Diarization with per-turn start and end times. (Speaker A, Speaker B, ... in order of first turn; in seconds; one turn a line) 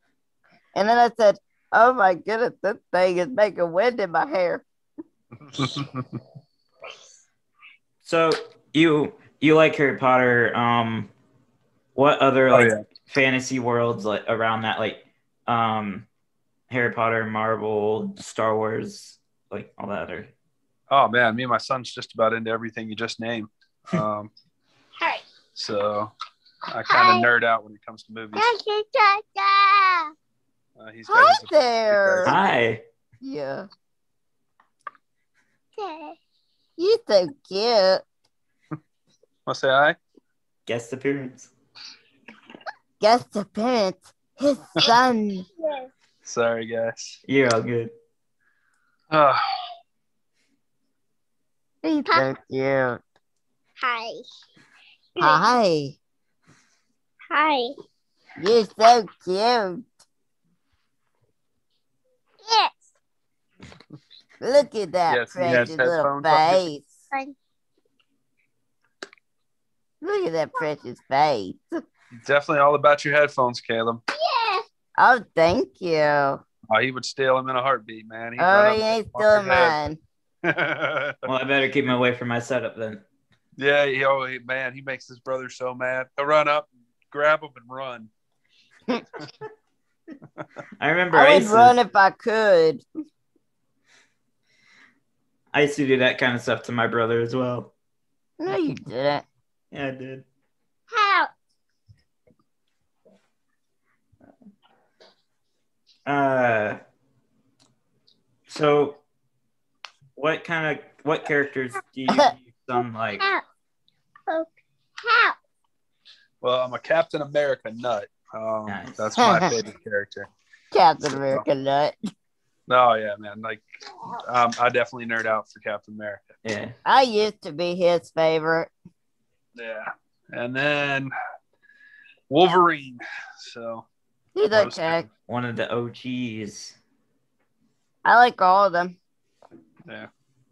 Speaker A: 0.7-4.6
Speaker B: 5.5-6.2
Speaker C: 8.0-11.1
Speaker C: 11.9-16.1
Speaker B: 12.5-12.8
Speaker C: 16.7-20.3
Speaker B: 20.9-24.3
Speaker D: 25.0-25.2
Speaker B: 25.5-26.1
Speaker B: 26.7-28.5
Speaker D: 26.9-27.3
Speaker D: 28.3-30.1
Speaker B: 30.8-32.4
Speaker A: 31.1-32.4
Speaker C: 32.2-32.8
Speaker A: 33.2-33.7
Speaker D: 35.8-36.2
Speaker A: 36.8-38.0
Speaker B: 39.5-40.0
Speaker C: 40.6-41.5
Speaker A: 43.0-45.5
Speaker D: 45.6-45.9
Speaker B: 46.2-47.2
Speaker C: 47.2-47.9
Speaker B: 49.1-49.4
Speaker D: 51.8-52.3
Speaker A: 52.1-53.0
Speaker D: 53.8-54.2
Speaker D: 55.1-55.5
Speaker A: 55.2-56.0
Speaker D: 57.3-57.7
Speaker A: 58.4-59.8
Speaker D: 62.4-62.9
Speaker A: 64.4-66.9
Speaker B: 65.1-66.6
Speaker A: 70.0-71.8
Speaker B: 72.1-74.0
Speaker D: 74.1-74.7
Speaker A: 75.0-76.4
Speaker B: 76.7-79.8
Speaker A: 78.4-80.0
Speaker B: 80.4-81.2
Speaker C: 81.2-83.0
Speaker B: 83.6-88.1
Speaker C: 90.8-91.8
Speaker A: 91.1-92.8
Speaker C: 95.5-97.7
Speaker A: 98.4-99.2
Speaker C: 99.7-100.2
Speaker D: 100.9-101.3
Speaker C: 106.0-106.8
Speaker C: 108.5-109.0
Speaker C: 110.1-113.2
Speaker D: 114.3-115.3
Speaker B: 116.4-120.3
Speaker C: 118.7-119.1
Speaker A: 119.2-119.5
Speaker A: 120.7-122.0
Speaker B: 121.1-121.4
Speaker B: 122.7-123.6
Speaker B: 124.2-126.3
Speaker C: 126.4-126.8
Speaker A: 126.8-128.7
Speaker B: 129.6-131.1
Speaker B: 132.3-133.8
Speaker A: 134.3-135.1
Speaker B: 134.5-135.0
Speaker C: 135.3-136.8
Speaker A: 138.0-138.9